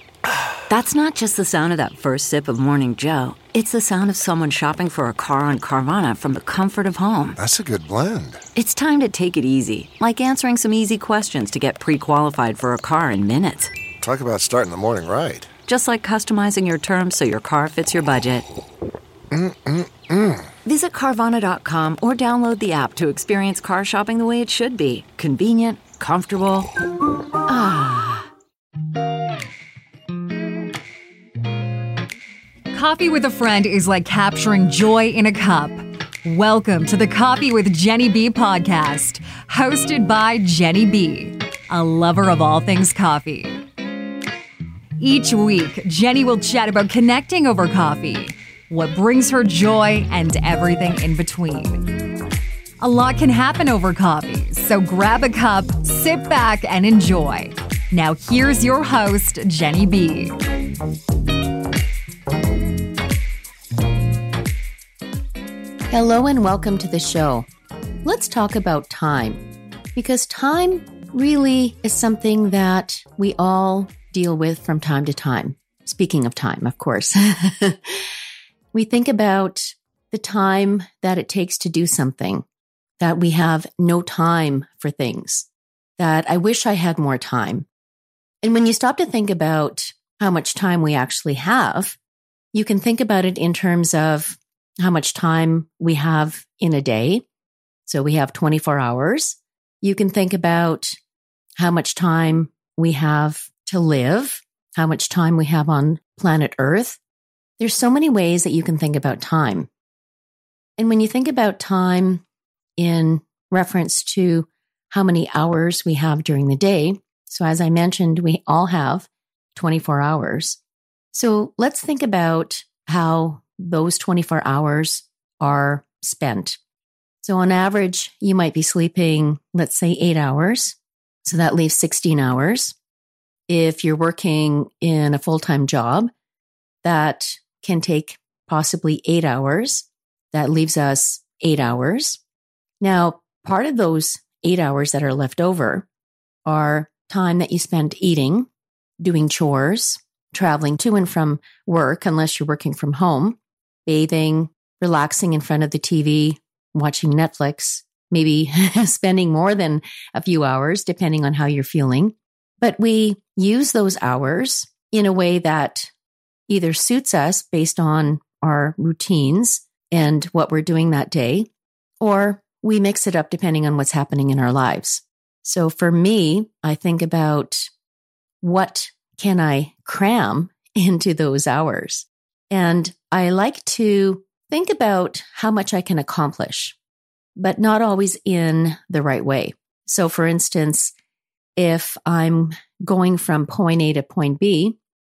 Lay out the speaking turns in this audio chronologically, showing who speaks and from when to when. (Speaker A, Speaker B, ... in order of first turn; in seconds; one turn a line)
Speaker A: 0.7-7.4
Speaker B: 7.4-8.4
Speaker A: 8.6-13.7
Speaker B: 14.0-15.5
Speaker A: 15.7-18.5
Speaker B: 19.3-20.5
Speaker A: 20.6-26.7
Speaker A: 27.5-28.3
Speaker C: 32.7-43.6
Speaker C: 45.0-51.9
Speaker C: 52.8-60.4
Speaker D: 65.9-67.5
Speaker D: 68.0-69.4
Speaker D: 70.0-78.0
Speaker D: 78.7-82.5
Speaker D: 83.0-85.5
Speaker D: 86.0-87.7
Speaker D: 88.4-92.0
Speaker D: 92.5-97.2
Speaker D: 97.9-101.0
Speaker D: 101.6-107.0
Speaker D: 107.6-109.7
Speaker D: 110.8-112.2
Speaker D: 112.8-120.6
Speaker D: 121.1-126.6
Speaker D: 127.2-132.8
Speaker D: 133.5-136.1
Speaker D: 136.8-142.2
Speaker D: 142.8-145.9
Speaker D: 146.4-148.5
Speaker D: 149.0-165.9
Speaker D: 166.5-171.5
Speaker D: 172.0-177.7
Speaker D: 178.4-186.8
Speaker D: 187.4-190.9
Speaker D: 191.6-194.8